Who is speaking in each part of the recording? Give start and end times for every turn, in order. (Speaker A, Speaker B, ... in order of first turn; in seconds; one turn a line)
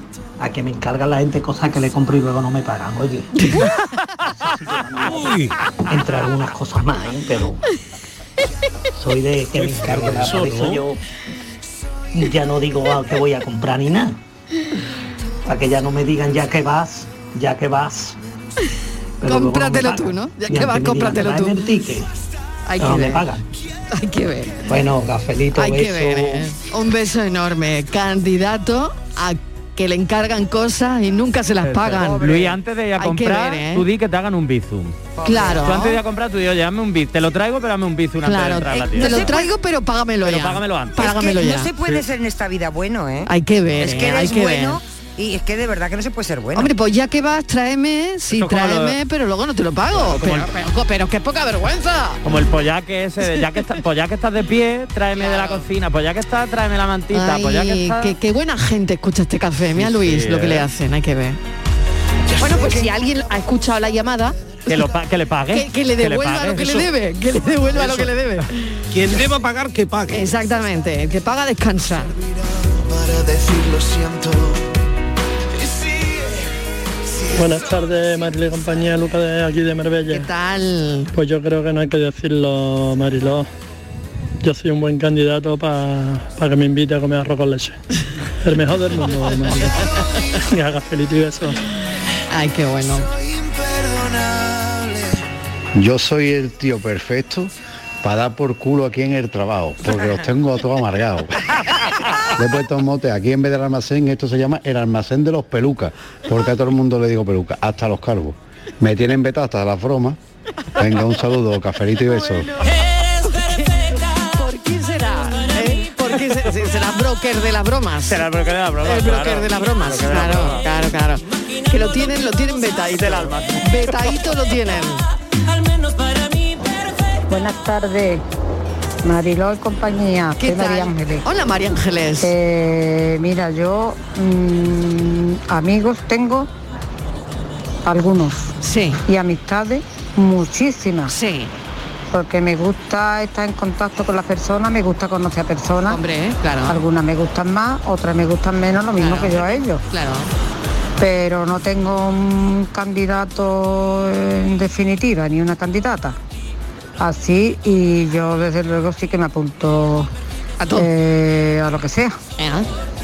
Speaker A: 0.4-3.4
Speaker B: 3.4-3.8
Speaker A: 4.4-7.6
Speaker C: 5.0-5.5
Speaker A: 8.9-11.0
Speaker C: 9.5-10.8
Speaker D: 10.5-10.7
Speaker A: 12.1-14.2
Speaker A: 15.4-18.2
Speaker A: 19.2-22.1
Speaker B: 19.2-21.6
Speaker B: 22.7-23.2
Speaker A: 22.8-23.4
Speaker B: 23.9-24.7
Speaker A: 24.7-26.5
Speaker B: 25.5-32.4
Speaker E: 31.6-39.4
Speaker F: 32.0-32.5
Speaker B: 33.0-33.8
Speaker F: 35.2-35.6
Speaker B: 35.2-36.0
Speaker B: 38.2-41.7
Speaker F: 38.7-39.5
Speaker E: 40.2-41.0
Speaker F: 41.0-46.7
Speaker B: 43.3-44.8
Speaker B: 46.5-52.2
Speaker E: 48.3-49.0
Speaker E: 49.9-50.5
Speaker E: 52.2-58.1
Speaker B: 55.1-55.6
Speaker B: 57.1-61.4
Speaker E: 59.8-60.7
Speaker D: 62.3-63.1
Speaker B: 62.4-64.4
Speaker E: 64.7-66.9
Speaker B: 65.5-68.8
Speaker C: 67.8-68.1
Speaker C: 68.9-70.3
Speaker B: 70.1-72.1
Speaker D: 72.2-74.7
Speaker D: 75.5-76.5
Speaker D: 77.1-77.7
Speaker G: 77.3-80.3
Speaker B: 80.1-81.1
Speaker G: 81.1-83.5
Speaker G: 84.4-87.8
Speaker G: 88.4-89.8
Speaker G: 90.5-91.5
Speaker B: 92.3-93.1
Speaker D: 93.0-95.2
Speaker H: 95.8-97.5
Speaker H: 98.0-101.4
Speaker H: 102.3-110.2
Speaker H: 110.8-112.5
Speaker B: 113.2-118.2
Speaker E: 118.1-120.6
Speaker B: 118.8-125.0
Speaker E: 123.0-124.0
Speaker I: 127.3-128.2
Speaker I: 129.0-131.2
Speaker B: 130.4-132.3
Speaker I: 132.2-136.5
Speaker I: 137.8-138.5
Speaker B: 138.6-139.0
Speaker I: 139.1-141.1
Speaker B: 141.1-141.5
Speaker I: 142.1-146.0
Speaker B: 145.9-146.8
Speaker I: 146.7-149.8
Speaker B: 149.0-150.3
Speaker I: 151.0-156.2
Speaker I: 157.0-160.1
Speaker B: 160.6-160.9
Speaker I: 160.7-162.2
Speaker B: 162.4-162.7